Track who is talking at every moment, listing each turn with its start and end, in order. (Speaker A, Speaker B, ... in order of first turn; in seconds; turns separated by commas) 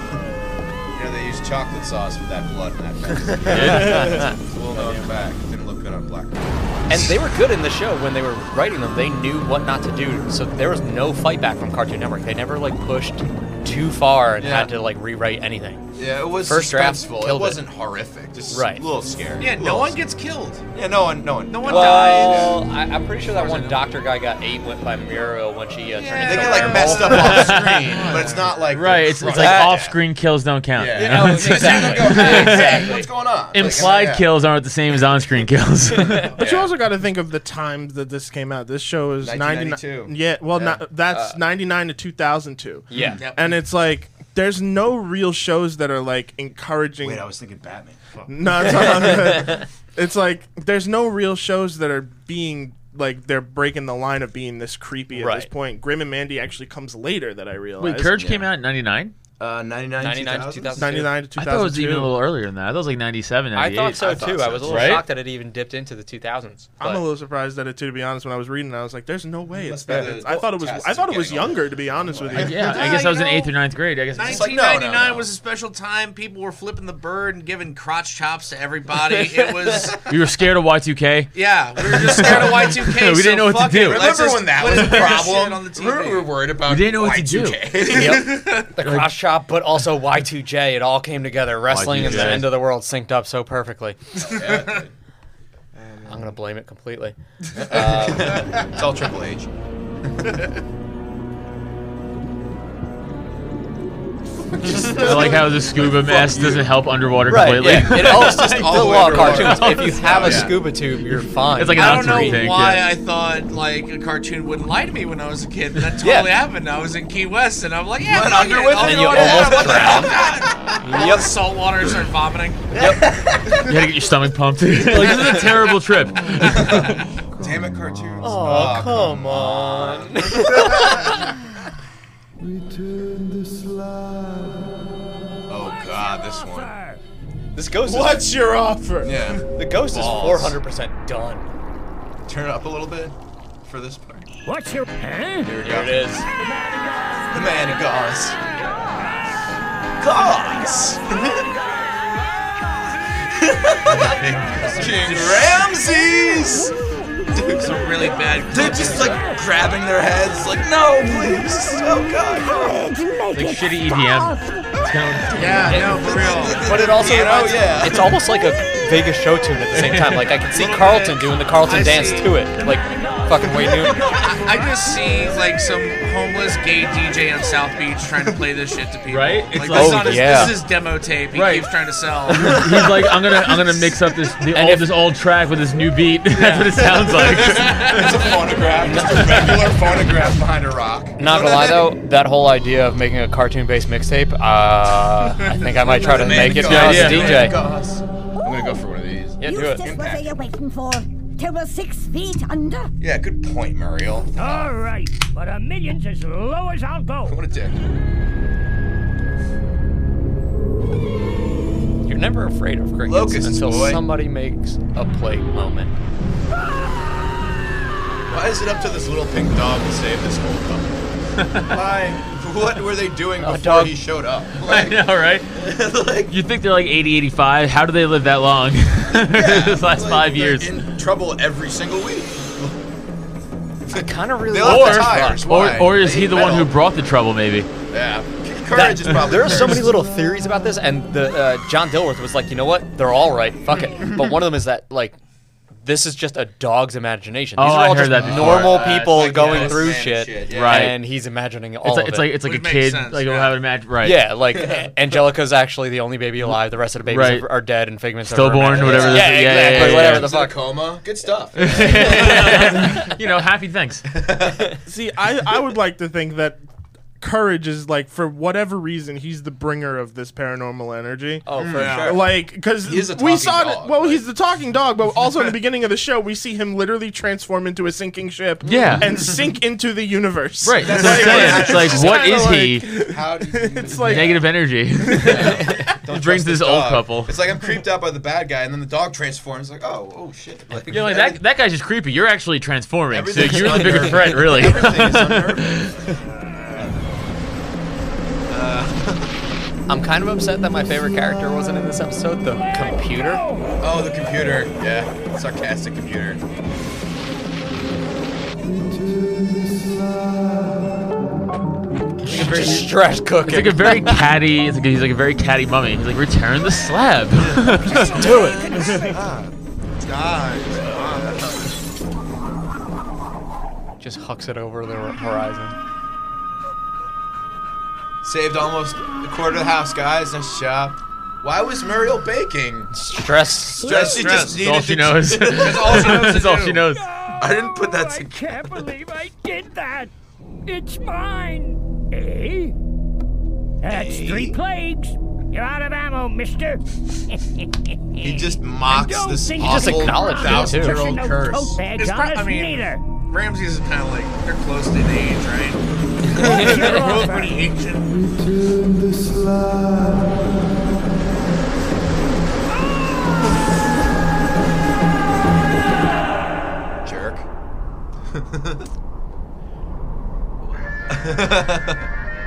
Speaker A: 0.9-7.1, Speaker B: 3.3-5.1, Speaker C: 3.5-4.3, Speaker B: 6.9-15.8, Speaker A: 14.4-14.7, Speaker A: 15.9-20.0, Speaker B: 16.4-17.7, Speaker B: 18.5-18.9, Speaker D: 19.4-20.6, Speaker A: 20.7-22.6, Speaker D: 21.5-22.6, Speaker B: 21.6-27.5, Speaker D: 23.4-23.8, Speaker D: 25.9-28.7, Speaker A: 26.2-30.0, Speaker C: 27.1-27.9, Speaker C: 28.7-33.0, Speaker B: 29.3-29.8, Speaker A: 30.8-34.3, Speaker B: 30.9-33.0, Speaker C: 33.5-36.4, Speaker B: 35.9-36.3, Speaker D: 36.1-36.6, Speaker E: 36.4-47.3, Speaker A: 36.4-36.6, Speaker A: 39.2-41.4, Speaker B: 42.9-43.2, Speaker D: 43.1-43.6, Speaker A: 47.0-48.6, Speaker E: 48.3-58.2, Speaker B: 48.8-49.5, Speaker B: 55.1-55.5, Speaker C: 57.8-59.1, Speaker A: 58.1-58.5, Speaker A: 59.4-60.9, Speaker B: 60.0-61.1, Speaker E: 60.7-62.2, Speaker C: 61.4-65.0, Speaker B: 63.5-67.0, Speaker A: 63.9-65.0, Speaker E: 66.8-72.6, Speaker A: 69.5-72.9, Speaker C: 72.3-74.6, Speaker D: 72.4-73.5, Speaker D: 74.1-80.0, Speaker A: 74.2-75.3, Speaker B: 79.1-79.9, Speaker C: 80.1-85.1, Speaker D: 81.3-86.3, Speaker A: 83.8-88.5, Speaker C: 86.7-87.6, Speaker B: 87.9-94.0, Speaker D: 88.0-88.7, Speaker C: 91.7-92.6, Speaker A: 94.1-94.9, Speaker D: 94.2-94.8, Speaker D: 95.7-96.3, Speaker B: 96.0-98.4, Speaker A: 97.5-99.5, Speaker D: 98.3-98.7, Speaker A: 104.6-105.4, Speaker C: 104.6-110.5, Speaker A: 105.9-106.8, Speaker B: 107.2-112.4, Speaker A: 107.6-110.7, Speaker C: 111.6-113.0, Speaker D: 111.7-122.9, Speaker B: 116.0-116.4, Speaker A: 118.0-120.7, Speaker B: 118.7-120.2, Speaker B: 120.8-121.4, Speaker B: 122.7-123.0, Speaker A: 122.8-123.7, Speaker C: 123.5-127.0, Speaker D: 124.9-125.5, Speaker B: 124.9-125.3, Speaker A: 126.4-131.1, Speaker B: 128.2-131.3, Speaker A: 135.5-136.7, Speaker F: 135.5-137.0, Speaker B: 137.5-138.3, Speaker E: 137.8-139.3, Speaker A: 139.0-140.6, Speaker B: 139.5-141.5, Speaker A: 142.2-144.3, Speaker F: 144.4-148.2, Speaker A: 145.4-146.1, Speaker B: 145.6-146.2, Speaker A: 147.3-148.4, Speaker F: 148.8-149.4, Speaker A: 150.0-151.5, Speaker F: 150.1-151.8, Speaker A: 153.2-156.7, Speaker C: 153.9-154.6, Speaker B: 154.5-155.0, Speaker D: 154.8-155.7, Speaker G: 156.1-158.1, Speaker A: 157.3-157.8, Speaker D: 157.5-159.3, Speaker A: 158.5-162.8, Speaker G: 161.0-165.6, Speaker C: 163.3-165.8, Speaker D: 165.3-166.9, Speaker A: 165.5-168.2, Speaker B: 165.7-165.9, Speaker B: 166.6-174.0, Speaker D: 169.7-172.4, Speaker F: 172.5-175.5, Speaker D: 174.1-182.9, Speaker F: 176.8-177.6, Speaker C: 179.1-180.7, Speaker B: 179.7-180.6, Speaker C: 181.3-181.7, Speaker C: 182.2-188.4, Speaker B: 184.5-184.9, Speaker A: 186.3-191.9, Speaker B: 188.8-189.4, Speaker C: 189.1-189.6, Speaker B: 191.2-197.6, Speaker A: 195.8-200.3, Speaker C: 196.3-197.6, Speaker G: 198.4-198.8, Speaker B: 199.4-199.8, Speaker G: 199.4-202.9, Speaker A: 203.0-204.8, Speaker F: 204.3-207.4, Speaker A: 207.2-207.8, Speaker B: 212.0-215.9, Speaker A: 213.0-214.0, Speaker A: 218.3-226.3, Speaker C: 221.4-221.8, Speaker B: 223.4-224.0, Speaker C: 224.6-225.5, Speaker C: 226.3-230.8, Speaker A: 229.1-232.8, Speaker B: 233.9-235.5, Speaker A: 233.9-236.7, Speaker C: 234.6-237.7, Speaker A: 237.9-239.9, Speaker B: 238.7-245.2, Speaker B: 245.8-252.4, Speaker C: 247.6-249.8, Speaker A: 248.1-250.9, Speaker C: 250.5-251.1, Speaker C: 251.8-254.3, Speaker D: 252.4-253.6, Speaker B: 254.0-260.6, Speaker A: 254.5-254.9, Speaker C: 257.1-257.5, Speaker C: 258.2-260.3, Speaker A: 258.6-263.1, Speaker C: 261.6-264.1, Speaker B: 261.8-262.7, Speaker A: 264.1-264.8, Speaker E: 264.9-266.6, Speaker E: 267.2-284.5, Speaker B: 271.4-272.3, Speaker A: 271.6-272.2, Speaker D: 271.7-272.2, Speaker A: 272.8-274.2, Speaker C: 278.6-279.2, Speaker C: 280.6-282.9, Speaker A: 280.8-284.4, Speaker C: 283.9-287.4, Speaker E: 285.0-285.9, Speaker A: 285.1-291.4, Speaker C: 290.9-296.1, Speaker A: 293.1-296.1, Speaker A: 296.7-296.9, Speaker A: 298.5-299.3, Speaker B: 299.9-303.4, Speaker A: 303.8-306.4, Speaker B: 312.2-314.3, Speaker C: 312.4-312.8, Speaker C: 313.4-318.2, Speaker F: 317.8-319.2, Speaker B: 318.0-318.9, Speaker A: 319.1-319.5, Speaker D: 320.0-321.7, Speaker A: 320.8-321.7, Speaker B: 324.0-325.8, Speaker A: 328.2-332.9, Speaker B: 332.9-334.2, Speaker A: 333.8-336.5, Speaker D: 333.9-334.6, Speaker C: 334.5-337.0, Speaker D: 335.5-336.8, Speaker F: 336.8-340.1, Speaker A: 337.4-338.8, Speaker F: 340.6-342.8, Speaker F: 343.8-353.1, Speaker A: 343.8-344.6, Speaker A: 348.2-351.8, Speaker B: 349.6-351.0, Speaker D: 351.9-358.3, Speaker F: 356.2-357.8, Speaker A: 367.0-367.5, Speaker A: 368.3-368.9, Speaker A: 370.6-372.1